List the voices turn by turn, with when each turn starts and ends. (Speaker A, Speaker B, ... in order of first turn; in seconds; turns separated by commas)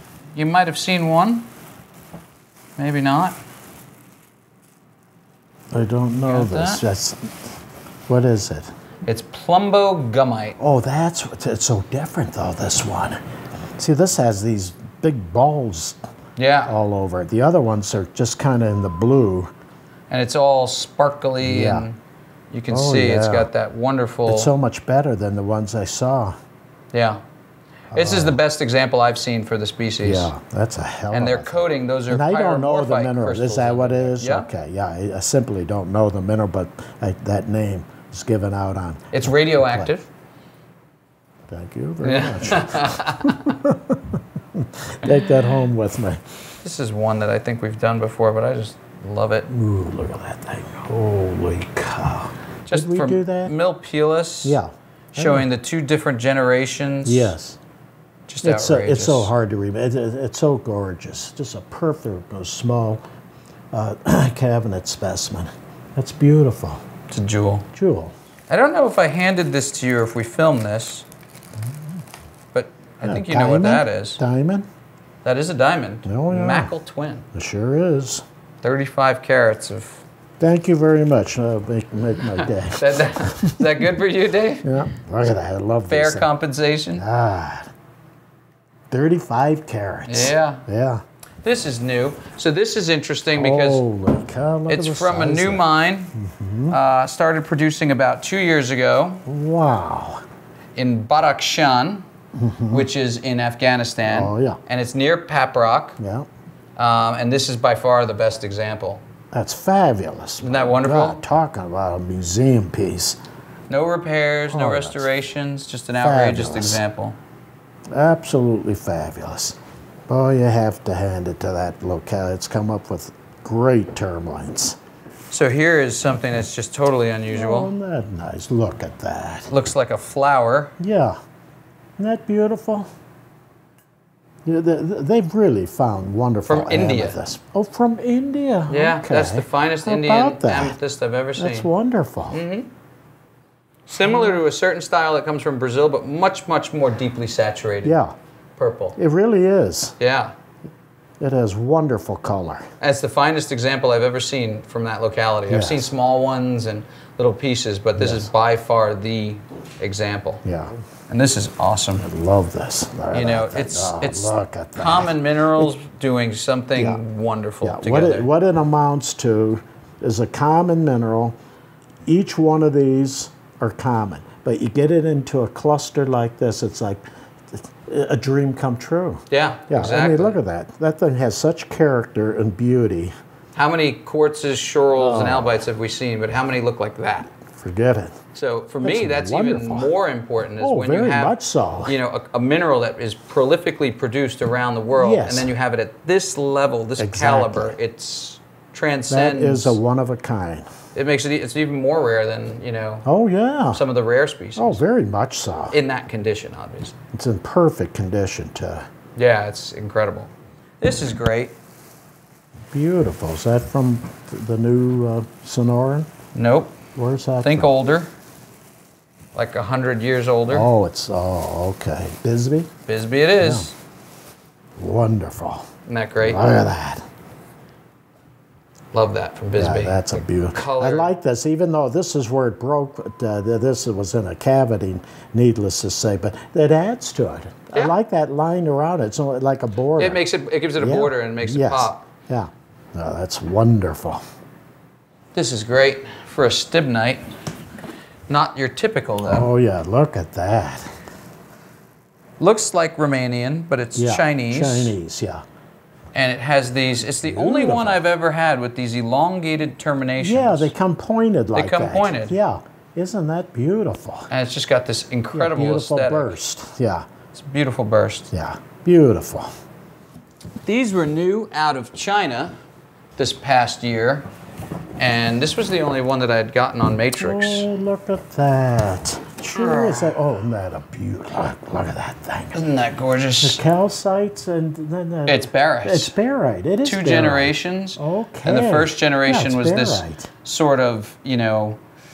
Speaker A: 0.3-1.5, Speaker A: 2.8-3.4, Speaker B: 5.7-7.4, Speaker A: 6.3-6.8, Speaker B: 8.1-8.7, Speaker A: 9.1-10.6, Speaker B: 10.6-13.2, Speaker B: 13.8-16.1, Speaker A: 16.4-16.7, Speaker B: 16.7-19.5, Speaker A: 20.1-22.0, Speaker B: 21.4-21.9, Speaker A: 22.5-24.5, Speaker B: 22.7-23.5, Speaker B: 24.3-26.4, Speaker A: 26.9-27.2, Speaker B: 27.9-28.4, Speaker A: 27.9-30.3, Speaker B: 30.0-39.9, Speaker A: 31.1-34.5, Speaker A: 39.1-40.1, Speaker B: 41.5-46.2, Speaker A: 42.0-43.4, Speaker A: 45.0-45.6, Speaker A: 46.6-49.5, Speaker B: 49.5-53.5, Speaker A: 52.7-54.6, Speaker B: 54.4-55.5, Speaker A: 55.1-57.3, Speaker B: 57.0-57.6, Speaker A: 58.3-59.3, Speaker B: 58.4-63.0, Speaker B: 63.7-66.9, Speaker A: 67.1-67.7, Speaker B: 67.7-68.1, Speaker A: 68.5-71.0, Speaker B: 71.6-72.0, Speaker A: 72.5-74.2, Speaker B: 73.0-74.7, Speaker A: 75.2-77.2, Speaker B: 76.1-76.7, Speaker B: 77.3-78.2, Speaker A: 78.6-80.0, Speaker B: 80.4-83.9, Speaker A: 82.4-84.7, Speaker B: 84.6-86.3, Speaker A: 85.9-87.0, Speaker B: 87.0-87.7, Speaker B: 88.9-91.0, Speaker A: 90.1-90.6, Speaker A: 91.4-93.8, Speaker B: 93.3-96.8, Speaker A: 94.7-96.1, Speaker A: 96.7-99.2, Speaker B: 99.3-100.2, Speaker A: 100.8-102.1, Speaker B: 102.3-102.9, Speaker A: 102.7-106.0, Speaker B: 104.0-104.6, Speaker B: 106.0-106.3, Speaker A: 106.8-109.0, Speaker B: 109.3-113.2, Speaker A: 110.4-111.2, Speaker A: 113.7-117.2, Speaker B: 114.5-115.1, Speaker B: 116.0-116.8, Speaker B: 117.9-124.8, Speaker A: 125.3-127.7, Speaker B: 127.3-129.5, Speaker A: 129.5-130.7, Speaker B: 130.8-131.2, Speaker B: 132.0-132.9, Speaker B: 134.5-140.8, Speaker A: 136.5-137.2, Speaker A: 138.7-141.7, Speaker B: 141.4-142.4, Speaker A: 142.3-142.7, Speaker A: 143.9-148.0, Speaker B: 144.0-144.4, Speaker B: 147.8-148.1, Speaker A: 148.6-149.0, Speaker B: 149.0-150.0, Speaker A: 150.0-150.3, Speaker B: 151.2-152.7, Speaker A: 152.8-160.4, Speaker B: 155.5-155.9, Speaker B: 158.0-158.3, Speaker B: 160.4-160.8, Speaker A: 161.1-162.1, Speaker B: 162.0-165.7, Speaker A: 163.1-168.3, Speaker B: 166.8-167.0, Speaker B: 167.6-171.4, Speaker B: 172.1-183.2, Speaker A: 179.3-180.4, Speaker A: 183.6-187.3, Speaker B: 185.0-185.7, Speaker B: 187.5-188.2, Speaker A: 188.3-199.8, Speaker B: 188.8-189.9, Speaker B: 190.6-192.0, Speaker B: 194.9-195.5, Speaker B: 197.0-197.8, Speaker B: 199.1-200.7, Speaker A: 200.9-203.1, Speaker B: 203.1-203.8, Speaker A: 203.7-204.8, Speaker B: 204.6-205.8, Speaker A: 205.7-206.9, Speaker B: 207.1-208.9, Speaker A: 209.2-210.3, Speaker A: 210.8-211.5, Speaker B: 212.7-216.1, Speaker A: 216.3-216.8, Speaker B: 217.0-217.7, Speaker A: 217.4-218.1, Speaker A: 219.3-220.7, Speaker B: 220.5-222.7, Speaker A: 222.9-223.7, Speaker B: 223.4-223.7, Speaker B: 224.8-225.7, Speaker A: 225.9-226.5, Speaker B: 226.2-227.1, Speaker A: 228.9-231.1, Speaker B: 229.6-240.2, Speaker A: 240.0-242.0, Speaker B: 240.8-244.2, Speaker A: 245.3-247.2, Speaker A: 248.3-249.5, Speaker B: 249.2-250.9, Speaker A: 252.4-254.9, Speaker B: 254.0-255.4, Speaker A: 256.1-260.7, Speaker B: 257.2-258.0, Speaker B: 260.2-264.3, Speaker A: 261.6-262.4, Speaker A: 264.3-266.4, Speaker B: 265.3-267.1, Speaker A: 267.3-268.3, Speaker B: 268.3-269.6, Speaker A: 270.6-272.6, Speaker A: 273.2-274.3, Speaker A: 275.0-277.7, Speaker B: 277.1-282.7, Speaker A: 279.6-280.1, Speaker A: 282.5-283.6, Speaker B: 283.4-290.3, Speaker A: 285.3-286.1, Speaker A: 286.8-291.8